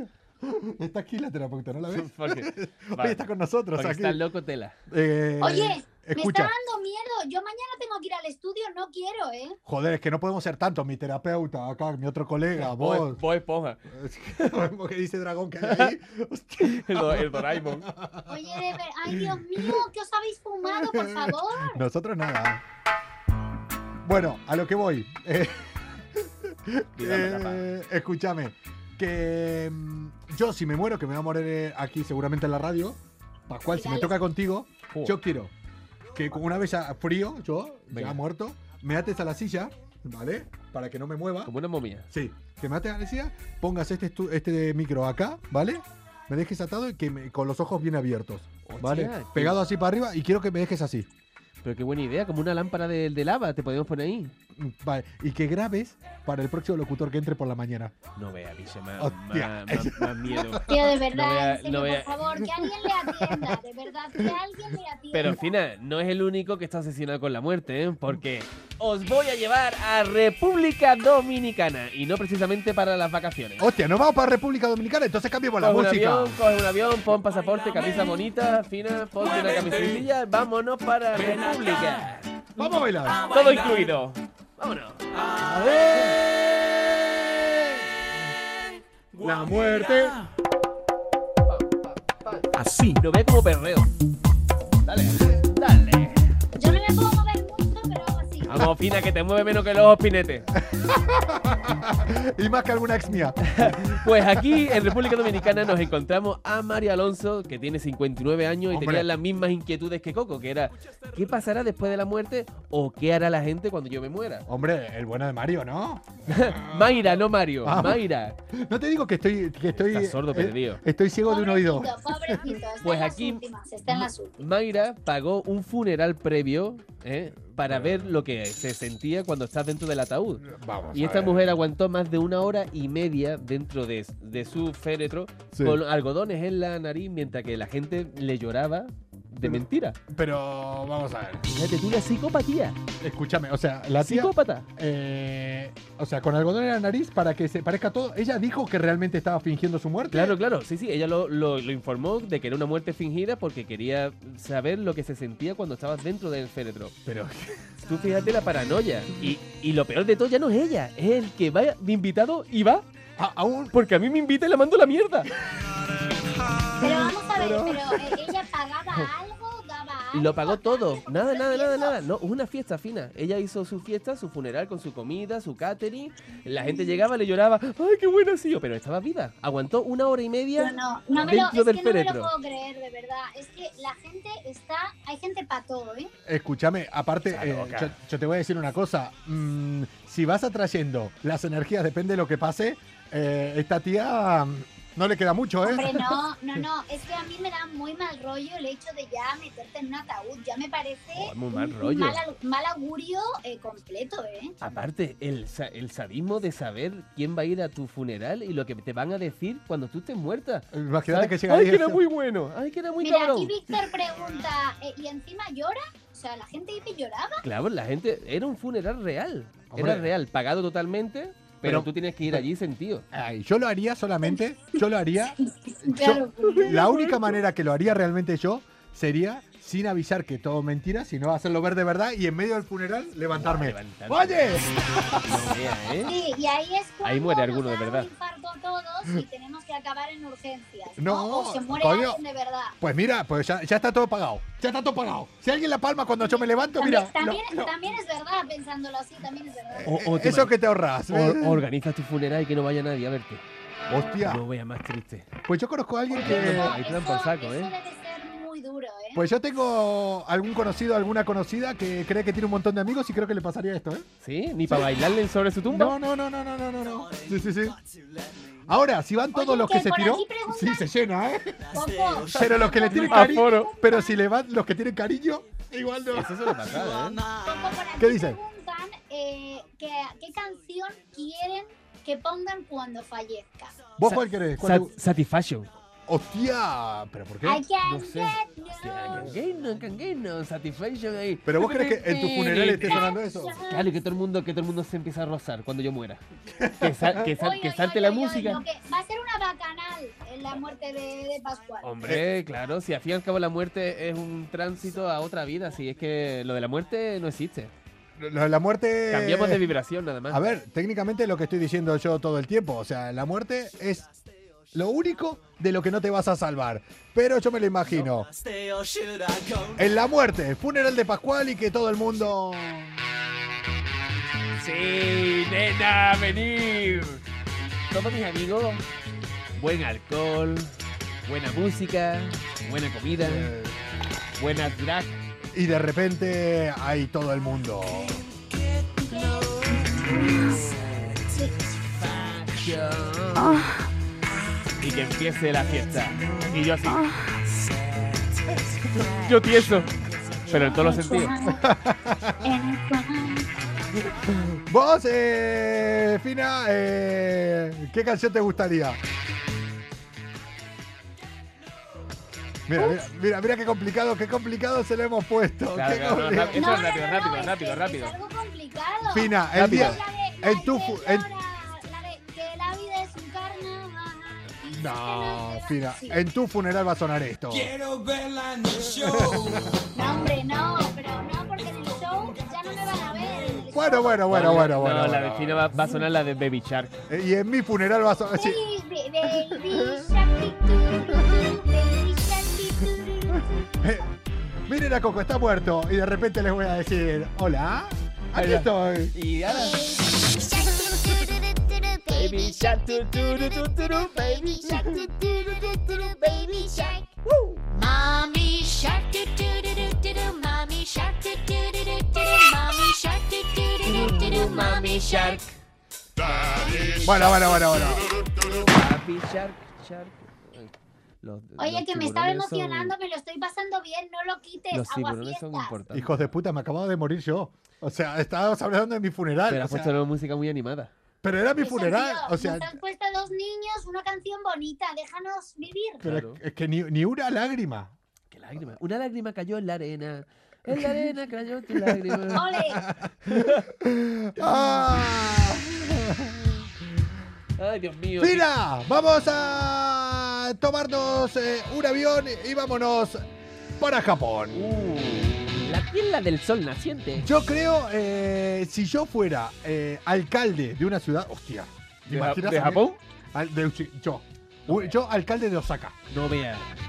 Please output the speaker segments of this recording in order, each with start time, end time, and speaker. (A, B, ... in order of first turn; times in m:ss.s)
0:00.4-0:04.2 A
0:01.9-0:03.2 B
0:03.7-0:04.8 B
0:04.9-0:06.5 A
0:05.4-0:09.6 C
0:09.7-0:13.2 A
0:12.6-0:13.8 B
0:13.9-0:19.9 A
0:15.6-0:15.9 B
0:16.6-0:17.9 B
0:18.3-0:21.8 C
0:20.6-0:22.6 A
0:24.0-0:35.5 A
0:27.0-0:27.6 B
0:33.7-0:34.2 C
0:34.9-0:35.2 B
0:36.2-0:41.5 A
0:37.9-0:38.2 B
0:41.5-0:42.1 B
0:42.1-0:51.1 A
0:48.7-0:49.6 B
0:51.6-0:54.3 B
0:54.6-0:58.0 A
0:58.2-1:02.2 B
0:59.0-1:00.9 A
1:00.7-1:05.6 C
1:03.0-1:03.6 A
1:05.1-1:13.7 B
1:13.6-1:16.4 A
1:15.6-1:22.5 B
1:22.6-1:23.3 A
1:23.2-1:25.8 B
1:25.4-1:26.2 A
1:26.9-1:28.1 A
1:29.2-1:30.2 A
1:32.2-1:33.9 B
1:34.8-1:36.3 B
1:36.6-1:38.6 C
1:38.5-1:40.5 B
1:40.6-1:44.6 A
1:43.4-1:54.5 B
1:48.7-1:49.1 A
1:54.5-1:57.0 A
1:56.3-1:58.4 B
1:57.6-2:02.5 A
1:59.8-2:00.8 B
2:01.2-2:04.4 C
2:02.8-2:03.4 B
2:04.4-2:20.0 B
2:07.7-2:08.0 A
2:10.4-2:11.5 A
2:15.5-2:15.8 A
2:19.4-2:21.5 A
2:21.5-2:22.8 B
2:23.0-2:30.4 A
2:24.0-2:24.7 B
2:30.1-2:37.0 B
2:37.1-2:37.7 A
2:37.9-2:42.8 B
2:43.2-2:43.7 A
2:43.7-2:45.3 B
2:46.8-2:52.0 C
2:46.8-2:48.3 A
2:50.1-3:02.3 B
2:56.6-2:56.9 C
3:00.6-3:06.1 C
3:06.3-3:16.2 A
3:07.3-3:07.9 B
3:15.6-3:24.6 C
3:21.1-3:22.2 B
3:24.6-3:33.5 B
3:30.7-3:32.0 A
3:33.0-3:37.4 C
3:37.4-3:43.1 B
3:39.7-3:40.1 A
3:41.6-3:42.5 A
3:43.1-3:55.6 A
3:45.4-3:46.9 C
3:46.5-3:47.3 B
3:53.4-3:54.6 B
3:55.2-3:56.1 B
3:56.0-4:02.8 C
3:57.0-3:58.1 B
4:01.0-4:02.2 A
4:02.8-4:07.7 A
4:06.2-4:10.0 C
4:09.7-4:11.6 A
4:09.9-4:10.6 B
4:11.1-4:13.4 B
4:13.9-4:14.4 A
4:14.2-4:15.3 B
4:15.5-4:16.8 A
4:16.1-4:19.2 C
4:16.2-4:17.7 B
4:19.2-4:24.1 A
4:24.2-4:26.0 B
4:25.7-4:27.8 A
4:28.7-4:31.7 A
4:29.3-4:30.9 C
4:31.7-4:34.2 C
4:32.2-4:36.8 A
4:32.3-4:33.7 B
4:36.1-4:37.2 B
4:37.4-4:43.8 C
4:38.0-4:38.4 A
4:44.0-4:44.9 A
4:44.0-4:45.7 B
4:46.1-4:47.6 A
4:47.4-4:49.3 C
4:47.8-4:53.1 B
4:51.4-4:53.6 A
4:52.9-4:53.9 C
4:53.7-4:56.2 B
4:56.6-4:57.3 A
4:56.8-4:58.6 B
4:57.4-5:01.9 C
5:01.8-5:07.7 B
5:08.2-5:09.7 A
5:09.1-5:10.4 B
5:10.3-5:14.1 A
5:14.7-5:18.3 A
5:19.7-5:23.0 A
5:24.6-5:27.2 B
5:27.9-5:28.8 B
5:29.6-5:30.7 B
5:31.3-5:33.5 B
5:33.2-5:33.8 A
5:34.4-5:35.2 B
5:35.5-5:38.2 A
5:38.8-5:41.2 B
5:39.1-5:39.5 C
5:40.0-5:40.6 C
5:41.9-5:43.7 B
5:44.8-5:47.2 B
5:49.0-5:51.3 B
5:50.5-5:51.6 C
5:51.4-5:52.5 A
5:52.4-5:53.5 C
5:54.1-5:59.0 A
6:02.7-6:06.8 A
6:02.8-6:03.0 C
6:05.7-6:08.2 B
6:06.5-6:16.2 C
6:09.1-6:11.3 A
6:09.6-6:10.0 B
6:14.7-6:17.7 A
6:17.5-6:19.8 D
6:19.0-6:19.7 A
6:20.0-6:24.2 C
6:23.7-6:25.7 A
6:24.3-6:27.0 B
6:27.1-6:28.6 A
6:28.4-6:33.5 C
6:29.4-6:30.1 A
6:31.2-6:31.5 A
6:33.8-6:34.1 A
6:34.7-6:39.2 A
6:38.3-6:39.8 B
6:39.5-6:41.2 C
6:42.0-6:47.0 C
6:42.1-6:47.6 B
6:47.7-6:55.4 E
6:53.8-6:55.5 B
6:56.3-7:02.9 B
6:57.0-6:58.3 A
7:01.6-7:05.8 C
7:04.7-7:06.3 B
7:05.9-7:10.0 A
7:09.5-7:10.9 B
7:11.2-7:12.8 A
7:11.6-7:16.0 C
7:16.0-7:16.4 B
7:16.0-7:17.9 A
7:18.3-7:22.5 B
7:20.7-7:21.1 A
7:21.7-7:27.0 A
7:22.3-7:22.8 C
7:23.3-7:23.7 B
7:24.4-7:25.0 B
7:27.6-7:28.4 B
7:28.2-7:33.2 A
7:33.8-7:34.6 A
7:34.6-7:37.3 B
7:37.2-7:46.0 A
7:42.1-7:43.0 B
7:44.7-7:45.0 B
7:46.1-7:46.8 B